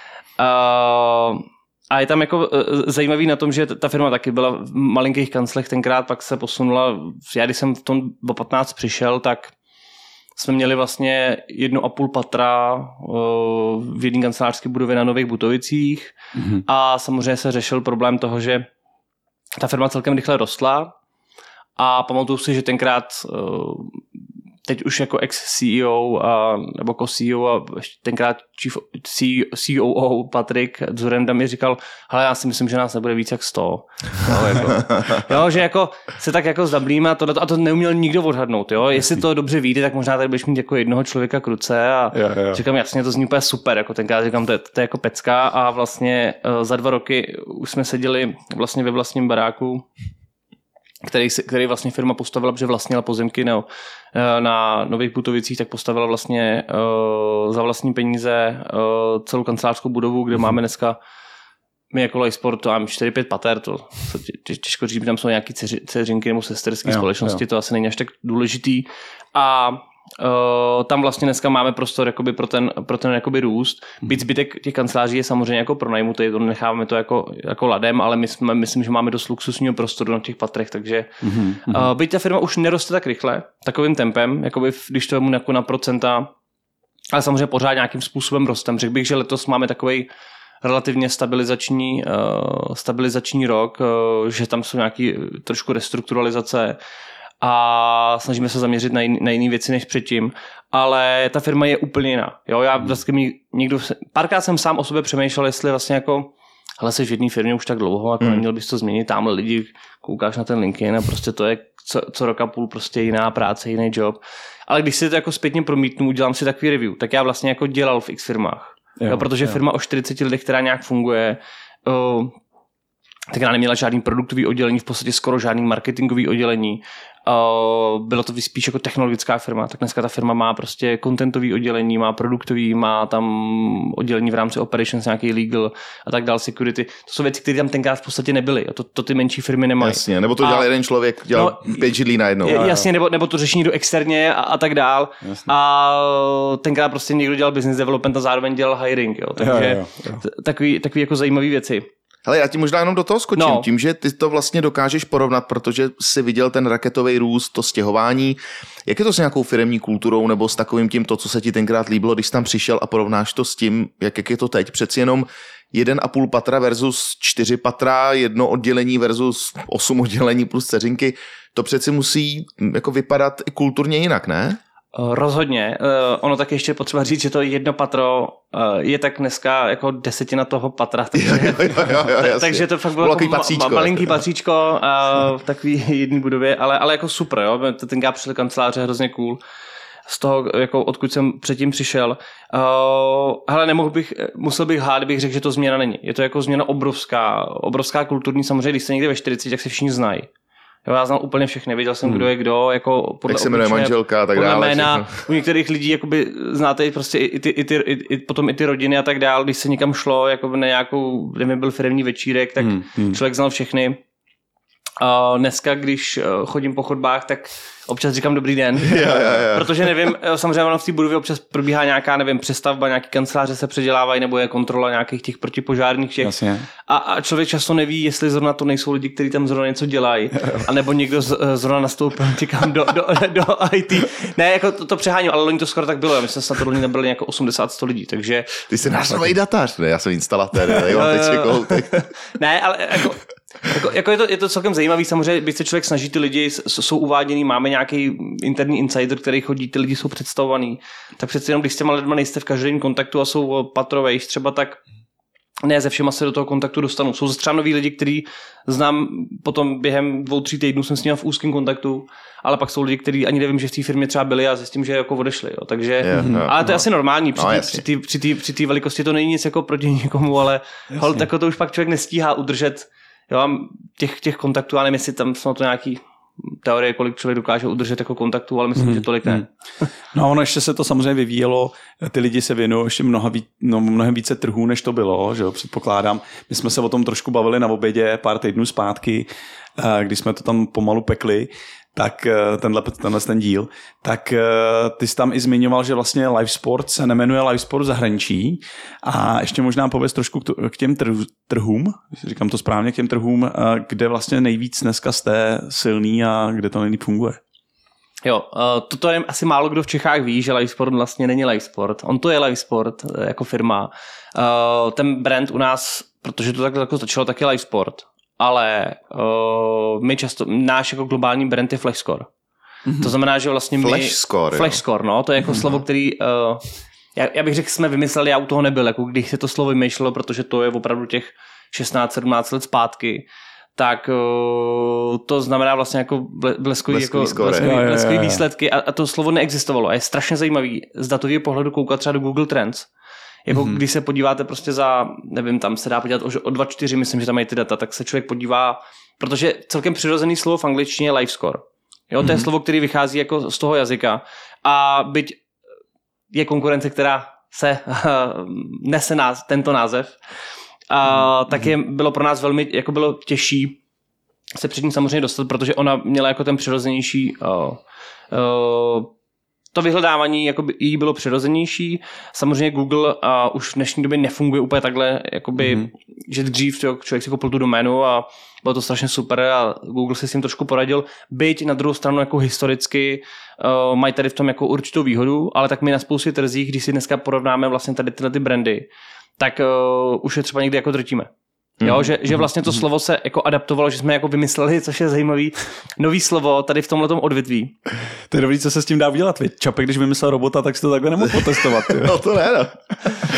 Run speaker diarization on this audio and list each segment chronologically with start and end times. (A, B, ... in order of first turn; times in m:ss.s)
0:00.4-0:09.5 A
0:10.4-0:16.1 A
0:16.4-0:16.6 B
0:16.6-0:18.7 A
0:19.6-0:20.9 A
0:21.8-0:24.0 A
0:24.6-0:49.9 A
0:42.1-0:42.6 B
0:51.0-1:01.0 A
1:01.9-1:26.3 A
1:06.9-1:07.4 B
1:21.2-1:21.9 B
1:27.1-1:30.1 A
1:30.6-1:36.8 A
1:37.4-2:02.4 A
1:59.0-1:59.6 B
2:03.3-2:20.7 A
2:19.8-2:22.6 C
2:21.3-2:21.9 A
2:22.4-2:31.9 A
2:22.4-2:22.8 B
2:29.4-2:30.2 B
2:32.2-2:54.6 C
2:33.4-2:33.7 A
2:54.9-3:09.4 A
3:01.1-3:04.2 C
3:10.1-3:20.3 A
3:20.8-3:34.0 A
3:23.3-3:25.3 C
3:32.6-3:33.2 B
3:35.0-3:58.6 A
3:38.8-3:39.7 C
3:46.2-3:46.7 B
3:58.6-4:01.9 C
4:00.9-4:14.8 A
4:15.6-4:39.9 A
4:26.0-4:26.8 C
4:26.2-4:26.5 B
4:27.3-4:27.8 C
4:30.9-4:31.2 B
4:38.8-4:39.4 B
4:40.1-5:07.4 B
5:08.2-5:22.3 A
5:23.0-5:26.6 A
5:23.8-5:24.8 C
5:27.1-5:42.9 A
5:36.9-5:37.7 C
5:37.6-5:38.4 B
5:43.4-5:55.4 A
5:43.5-5:43.8 B
5:56.3-6:00.2 A
6:00.9-6:03.8 A
6:01.1-6:01.7 B
6:04.5-6:09.1 A
6:09.7-6:28.9 A
6:15.6-6:15.9 B
6:29.4-6:31.3 A
6:31.8-6:37.8 A
6:38.3-6:42.2 B
6:41.3-6:43.2 C